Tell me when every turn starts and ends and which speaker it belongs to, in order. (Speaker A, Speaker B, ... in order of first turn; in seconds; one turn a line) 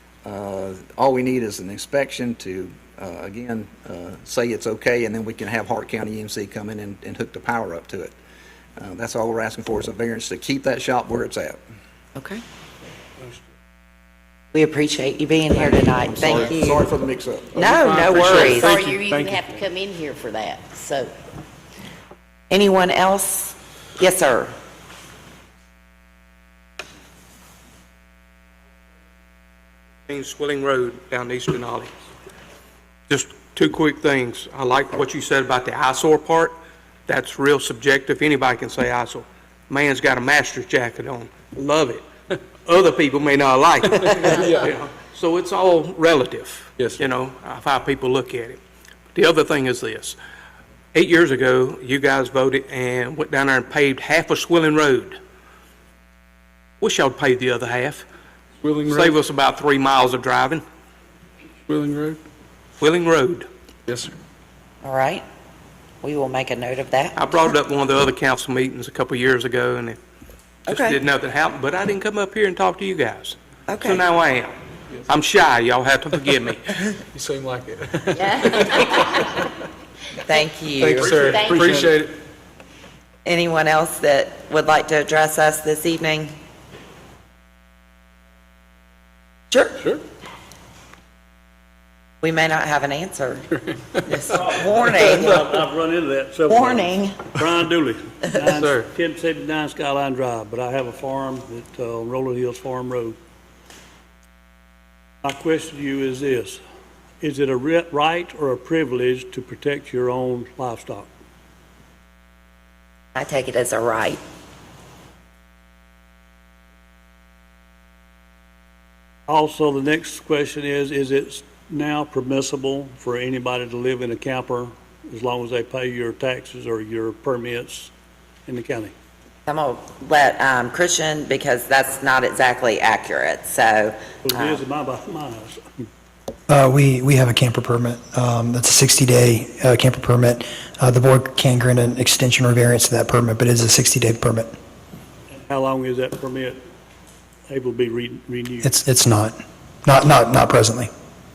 Speaker A: 0.2-8.1
Speaker A: 8.8-11.6
Speaker B: 12.2-12.4
Speaker B: 14.5-16.9
Speaker A: 15.5-17.6
Speaker B: 17.6-18.8
Speaker C: 17.6-19.6
Speaker D: 18.1-21.1
Speaker B: 22.5-24.5
Speaker E: 30.1-31.9
Speaker E: 33.1-36.5
Speaker E: 37.1-42.0
Speaker E: 42.6-48.6
Speaker C: 44.1-44.7
Speaker C: 46.8-47.0
Speaker E: 49.1-50.2
Speaker E: 50.9-55.2
Speaker E: 56.8-58.0
Speaker C: 58.6-59.1
Speaker E: 58.9-60.6
Speaker C: 61.7-62.2
Speaker E: 62.8-63.5
Speaker C: 63.9-64.1
Speaker B: 64.8-65.2
Speaker B: 66.0-67.5
Speaker E: 67.2-70.0
Speaker B: 70.7-71.0
Speaker E: 70.7-74.6
Speaker B: 73.7-74.0
Speaker E: 75.1-76.8
Speaker C: 77.1-79.4
Speaker D: 78.1-79.2
Speaker B: 80.3-81.6
Speaker C: 80.8-82.1
Speaker D: 80.9-81.9
Speaker B: 83.2-86.3
Speaker B: 89.5-89.8
Speaker B: 92.2-93.5
Speaker B: 94.0-95.3
Speaker F: 94.2-103.2
Speaker B: 96.5-97.2
Speaker C: 98.5-98.8
Speaker F: 105.2-106.6
Speaker F: 107.2-111.1
Speaker B: 113.1-114.2
Speaker F: 119.3-127.9
Speaker F: 128.5-128.9
Speaker B: 129.5-134.6
Speaker F: 134.2-135.9
Speaker G: 136.5-144.5
Speaker F: 145.3-146.6
Speaker F: 147.5-148.7
Speaker G: 148.6-150.9